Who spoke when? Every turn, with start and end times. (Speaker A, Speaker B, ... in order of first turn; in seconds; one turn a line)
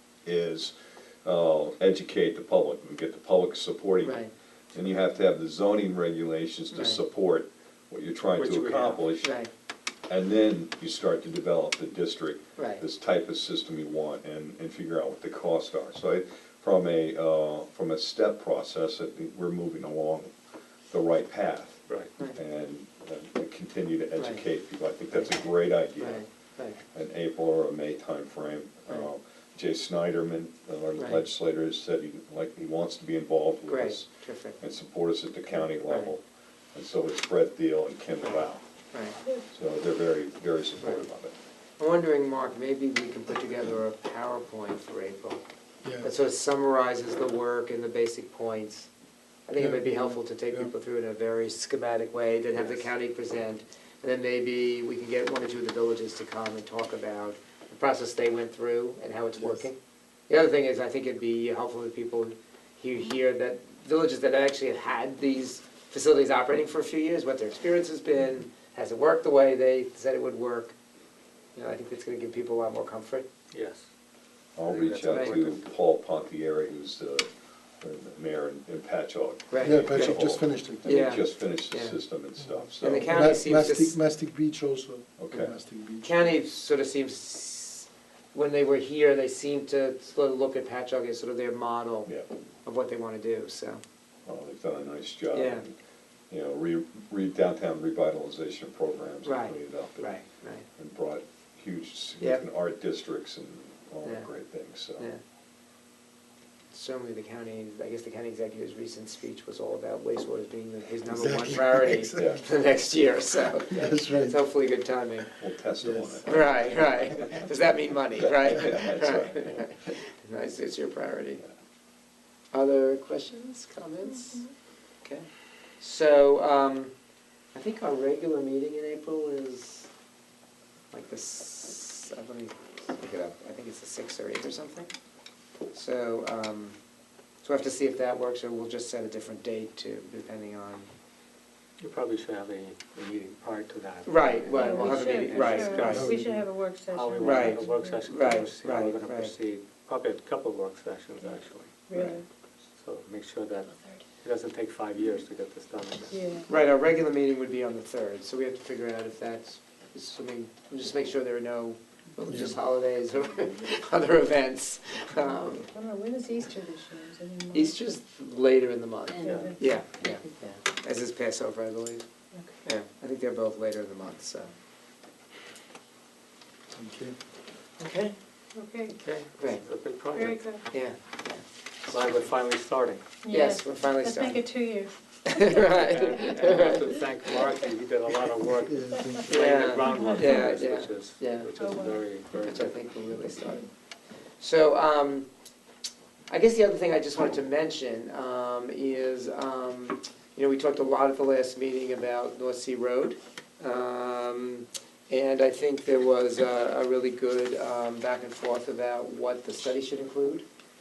Speaker A: 0.2-4.2
Speaker B: 4.0-4.3
Speaker A: 4.7-9.3
Speaker B: 6.7-7.0
Speaker C: 8.4-9.0
Speaker B: 9.2-9.5
Speaker A: 10.1-20.3
Speaker B: 12.6-12.8
Speaker A: 20.9-26.3
Speaker B: 24.2-24.4
Speaker B: 26.0-26.8
Speaker A: 26.9-38.6
Speaker B: 31.0-31.2
Speaker B: 33.7-34.6
Speaker B: 38.9-39.2
Speaker A: 39.3-41.3
Speaker B: 41.8-45.4
Speaker D: 45.8-46.1
Speaker B: 46.0-48.9
Speaker B: 49.5-59.8
Speaker D: 49.6-50.7
Speaker B: 60.3-70.7
Speaker B: 71.6-73.3
Speaker C: 73.5-73.9
Speaker A: 74.6-83.5
Speaker C: 74.6-75.7
Speaker B: 75.1-75.4
Speaker B: 79.5-80.2
Speaker D: 79.6-81.1
Speaker B: 80.8-82.0
Speaker D: 82.5-86.3
Speaker B: 82.8-84.0
Speaker A: 85.2-85.5
Speaker B: 86.0-92.1
Speaker B: 92.6-93.8
Speaker A: 94.2-95.8
Speaker B: 95.3-95.6
Speaker A: 96.3-100.2
Speaker B: 99.2-100.7
Speaker A: 100.8-105.1
Speaker B: 104.0-104.3
Speaker B: 106.7-115.3
Speaker D: 111.1-112.4
Speaker A: 112.1-112.5
Speaker D: 113.7-114.4
Speaker A: 115.4-117.5
Speaker D: 115.8-116.2
Speaker B: 116.2-121.4
Speaker A: 118.2-119.7
Speaker B: 122.5-124.5
Speaker B: 125.8-126.9
Speaker B: 127.5-129.9
Speaker B: 130.9-134.9
Speaker B: 135.7-136.8
Speaker B: 137.4-140.9
Speaker C: 141.8-146.1
Speaker B: 144.1-146.1
Speaker E: 144.2-148.8
Speaker D: 145.8-146.4
Speaker C: 146.9-152.2
Speaker B: 147.2-149.3
Speaker E: 151.9-152.2
Speaker C: 152.8-156.2
Speaker E: 156.1-156.5
Speaker B: 156.5-165.7
Speaker D: 162.3-162.6
Speaker E: 165.7-167.7
Speaker B: 167.5-172.1
Speaker C: 169.2-169.6
Speaker E: 169.3-169.6
Speaker B: 172.6-174.5
Speaker D: 176.7-177.2
Speaker B: 177.8-178.2
Speaker E: 178.6-179.0
Speaker C: 178.9-180.6
Speaker B: 179.4-179.6
Speaker E: 180.2-180.6
Speaker B: 180.7-181.4
Speaker C: 181.9-183.0
Speaker E: 183.2-185.7
Speaker B: 183.3-184.4
Speaker B: 185.2-186.8
Speaker C: 185.7-192.8
Speaker D: 188.7-189.3
Speaker B: 189.3-191.5
Speaker E: 189.9-190.5
Speaker E: 191.6-192.0
Speaker B: 192.4-193.7
Speaker B: 194.4-195.3
Speaker B: 196.3-210.4